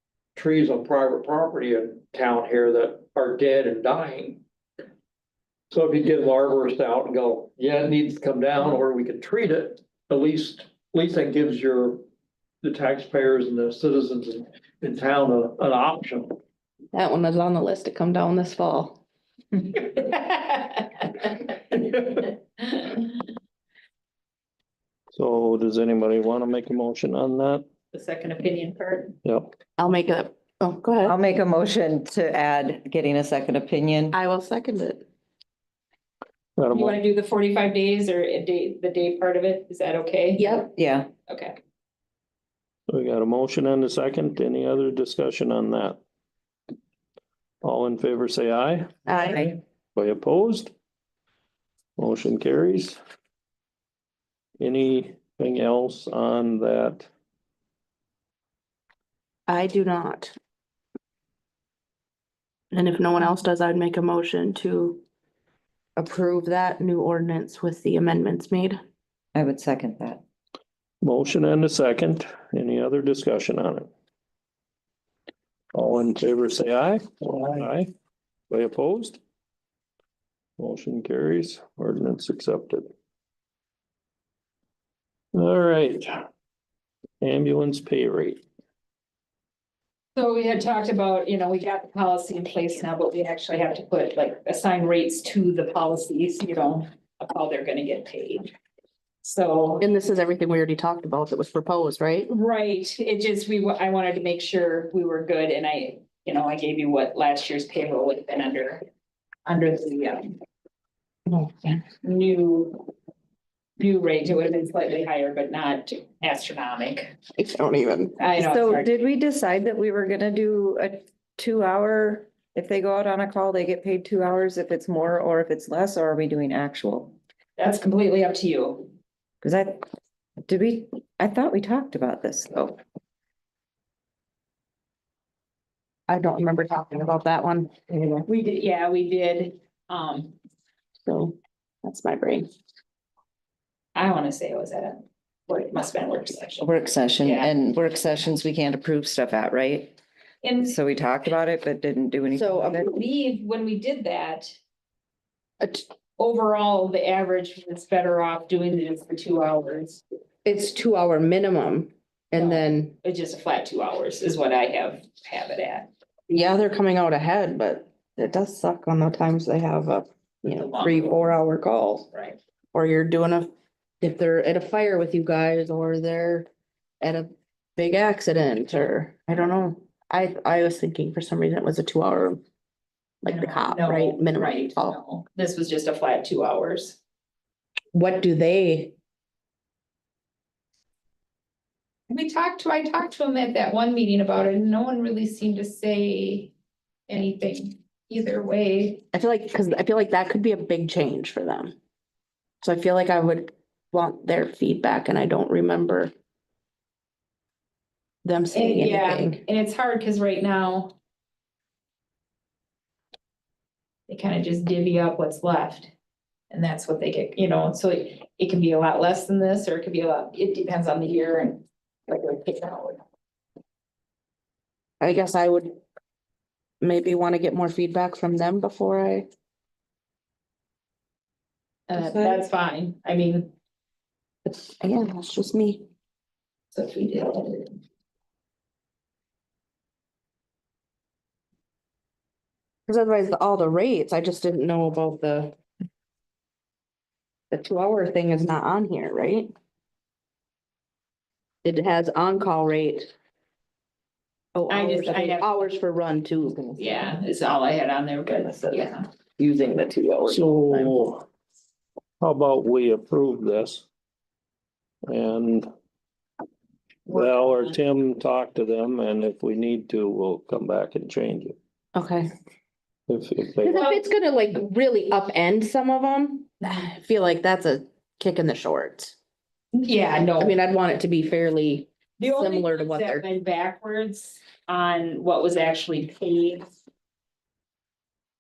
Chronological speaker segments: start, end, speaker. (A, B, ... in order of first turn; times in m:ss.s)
0:00.3-0:04.4 A
0:05.7-0:12.0 A
0:12.6-0:16.4 A
0:16.9-0:19.0 B
0:20.0-0:20.6 C
0:25.1-0:27.6 D
0:27.9-0:29.2 C
0:29.2-0:29.5 D
0:29.8-0:31.2 B
0:31.0-0:34.2 E
0:34.1-0:35.0 B
0:36.6-0:37.0 D
0:36.7-0:40.6 C
0:40.4-0:40.7 B
0:40.8-0:41.1 E
0:41.3-0:41.6 C
0:42.9-0:46.0 D
0:47.6-0:48.9 D
0:49.0-0:49.4 B
0:50.0-0:50.7 D
0:52.0-0:53.0 D
0:54.6-0:57.1 D
0:59.5-1:00.3 B
1:02.7-1:05.0 B
1:06.0-1:08.8 B
1:09.3-1:10.2 E
1:11.0-1:13.9 D
1:15.7-1:17.9 D
1:18.5-1:19.2 D
1:20.6-1:22.9 D
1:25.3-1:26.1 D
1:27.2-1:28.4 D
1:30.1-1:38.5 C
1:39.2-1:39.9 C
1:39.8-1:42.3 B
1:42.3-1:48.8 C
1:49.4-1:50.3 C
1:51.3-1:51.8 B
1:52.0-1:52.8 C
1:53.8-1:57.1 C
1:57.4-1:58.2 B
1:58.2-1:59.0 C
1:58.4-2:07.1 E
2:07.6-2:08.9 C
2:09.4-2:09.8 E
2:10.4-2:12.8 E
2:16.1-2:18.2 B
2:18.3-2:20.3 C
2:21.0-2:22.5 B
2:23.9-2:26.7 C
2:26.6-2:30.0 E
2:27.2-2:27.5 C
2:30.4-2:30.7 C
2:30.6-2:32.9 E
2:32.3-2:32.8 B
2:32.8-2:34.6 C
2:35.6-2:35.8 B
2:36.2-2:40.0 C
2:40.4-2:42.9 B
2:42.4-2:45.9 C
2:46.3-2:52.1 B
2:50.5-2:51.4 C
2:52.1-2:52.4 C
2:52.7-2:53.5 B
2:54.0-2:56.5 B
2:57.0-3:02.4 B
3:03.2-3:05.0 B
3:03.3-3:07.0 C
3:07.9-3:08.9 B
3:12.1-3:16.5 C
3:17.1-3:19.0 C
3:19.1-3:21.7 B
3:22.6-3:26.1 B
3:28.2-3:29.4 B
3:28.5-3:30.9 C
3:34.1-3:35.9 C
3:36.5-3:43.0 C
3:45.0-3:45.8 B
3:46.8-3:49.3 B
3:51.9-3:53.5 C
3:52.0-3:52.4 E
3:54.8-3:55.8 B
3:56.7-3:57.8 C
4:02.9-4:05.6 B
4:07.5-4:09.5 B
4:11.6-4:13.1 B
4:14.5-4:16.8 B
4:14.7-4:15.6 C
4:16.8-4:19.1 C
4:19.4-4:21.0 B
4:20.2-4:21.2 D
4:22.2-4:23.9 D
4:25.1-4:25.7 D
4:27.1-4:31.6 D
4:31.9-4:32.3 B
4:33.1-4:33.9 D
4:33.6-4:39.2 B
4:33.8-4:34.0 C
4:39.7-4:40.6 C
4:40.4-4:43.2 B
4:42.2-4:46.7 C